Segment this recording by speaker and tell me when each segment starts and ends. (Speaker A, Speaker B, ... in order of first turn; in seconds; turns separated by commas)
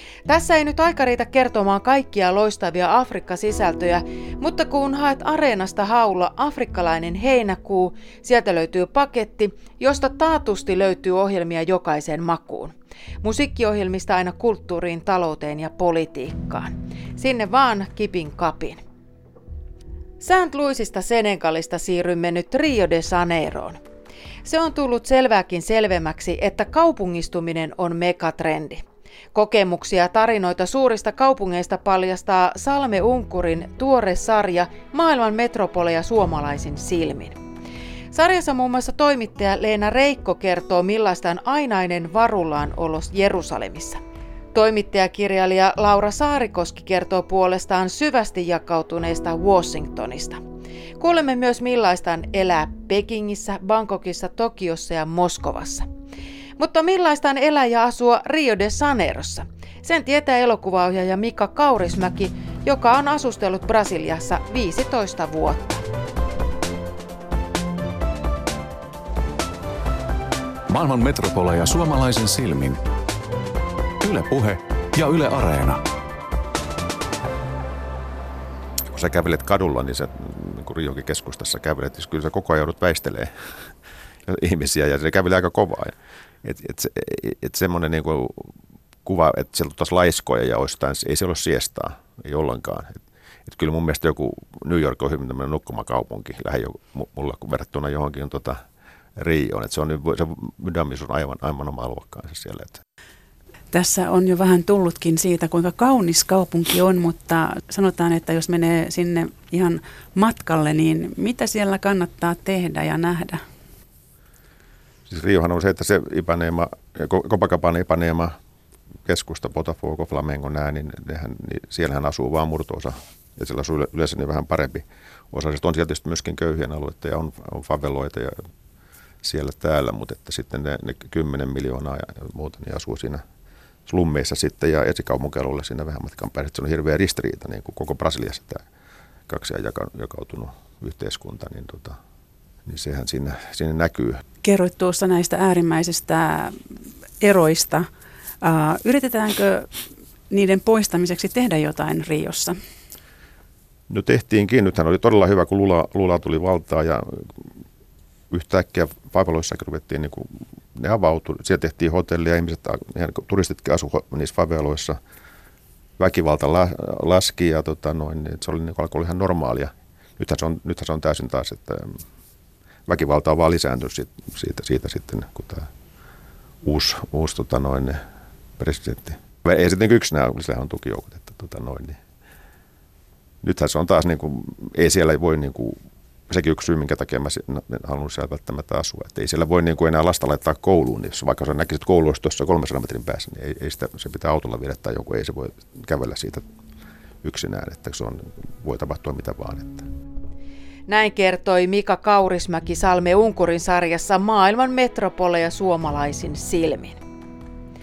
Speaker A: 0.3-18.8, Speaker A: 20.2-23.8, Speaker A: 24.4-37.4, Speaker A: 38.1-44.0, Speaker A: 44.5-50.4, Speaker A: 51.0-55.8, Speaker A: 56.6-65.8, Speaker B: 70.7-72.8, Speaker B: 74.0-75.8, Speaker C: 78.9-83.3, Speaker C: 84.3-88.5, Speaker C: 89.0-98.6, Speaker C: 99.2-102.8, Speaker D: 103.7-113.4, Speaker C: 115.1-118.3, Speaker C: 119.0-128.3, Speaker C: 129.2-133.2, Speaker C: 133.8-138.6, Speaker C: 139.3-141.9, Speaker C: 142.7-144.2, Speaker D: 144.4-152.6, Speaker C: 153.9-157.3, Speaker C: 158.3-165.0, Speaker C: 166.0-172.0, Speaker C: 172.9-175.7, Speaker C: 176.6-178.0, Speaker C: 178.6-182.0, Speaker C: 183.4-196.4, Speaker C: 197.2-199.8, Speaker A: 200.9-207.0